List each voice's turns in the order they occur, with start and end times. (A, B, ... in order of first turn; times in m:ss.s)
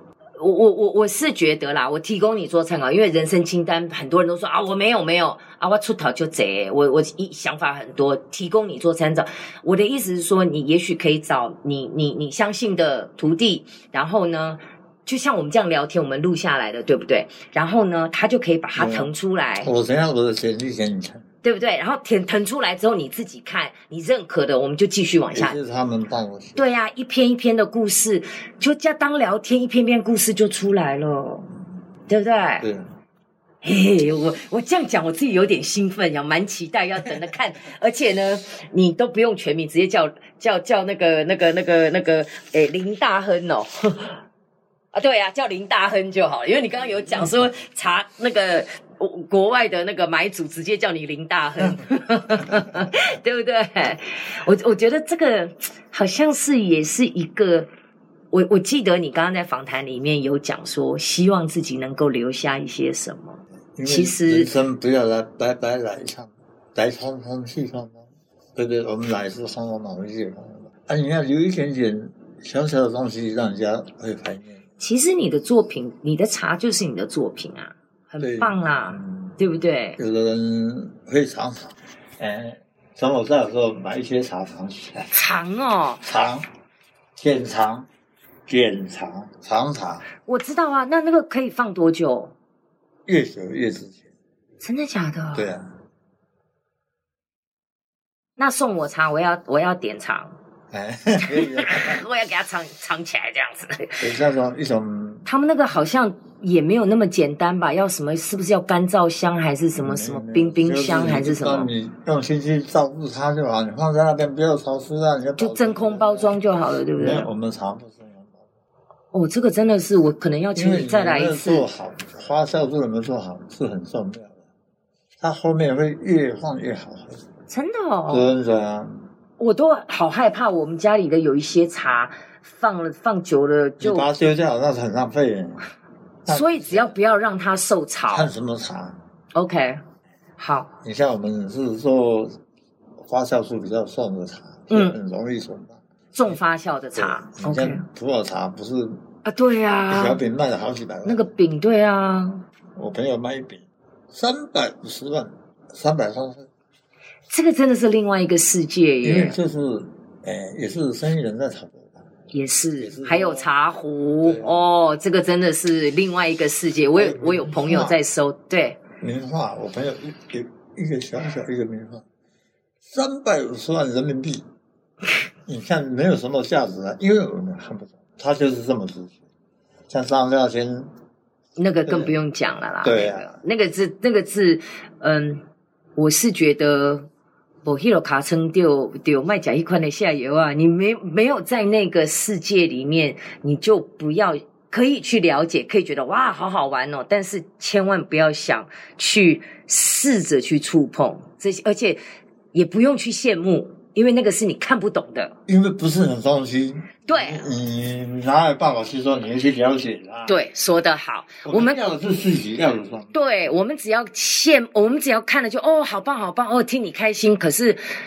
0:00.4-0:19.7 A
0:18.8-0:21.2 B
0:21.4-0:25.6 A
0:25.3-0:26.6 B
0:26.6-0:31.5 A
0:32.1-0:32.7 A
0:32.6-0:32.9 B
0:33.6-0:44.2 A
0:44.9-0:57.7 A
0:46.8-0:47.4 B
0:52.4-0:52.8 B
0:58.3-1:04.5 A
1:03.8-1:14.6 B
1:14.8-1:20.0 A
1:18.2-1:19.4 B
1:20.0-1:25.1 B
1:25.1-1:26.0 A
1:26.0-1:26.5 B
1:27.2-1:27.9 B
1:28.5-1:30.0 B
1:30.2-1:32.3 A
1:33.1-1:34.0 B
1:34.6-1:35.6 A
1:35.3-1:35.7 B
1:38.4-1:40.4 A
1:40.7-1:42.0 B
1:41.2-1:44.0 A
1:44.0-1:45.2 B
1:45.2-1:51.7 A
1:49.8-1:56.4 B
1:55.4-1:57.3 A
1:57.0-1:58.4 B
1:59.1-2:01.7 A
2:00.5-2:04.4 B
2:05.2-2:07.2 B
2:07.5-2:08.3 A
2:08.1-2:09.0 B
2:09.4-2:14.1 A
2:13.8-2:15.6 B
2:16.2-2:16.9 B
2:16.3-2:18.3 A
2:18.1-2:19.0 B
2:19.3-2:19.8 A
2:20.4-2:20.7 A
2:20.8-2:22.4 B
2:23.0-2:26.4 B
2:24.7-2:25.0 A
2:26.1-2:27.8 A
2:27.0-2:29.0 B
2:29.2-2:30.2 A
2:29.9-2:31.2 B
2:31.0-2:32.4 A
2:32.7-2:36.5 B
2:37.3-2:39.4 A
2:39.0-2:42.0 B
2:42.3-2:48.8 A
2:42.8-2:43.5 B
2:44.2-2:44.6 B
2:46.9-2:48.0 B
2:49.0-2:52.0 B
2:52.9-2:54.4 B
2:55.4-2:59.2 B
2:59.9-3:00.9 B
3:01.6-3:05.4 A
3:01.8-3:02.1 B
3:02.8-3:03.4 B
3:06.0-3:07.1 A
3:07.6-3:22.0 A
3:22.5-3:25.3 A
3:25.5-3:30.4 B
3:27.0-3:27.5 A
3:30.3-3:31.8 A
3:31.4-3:33.2 B
3:33.1-3:37.8 A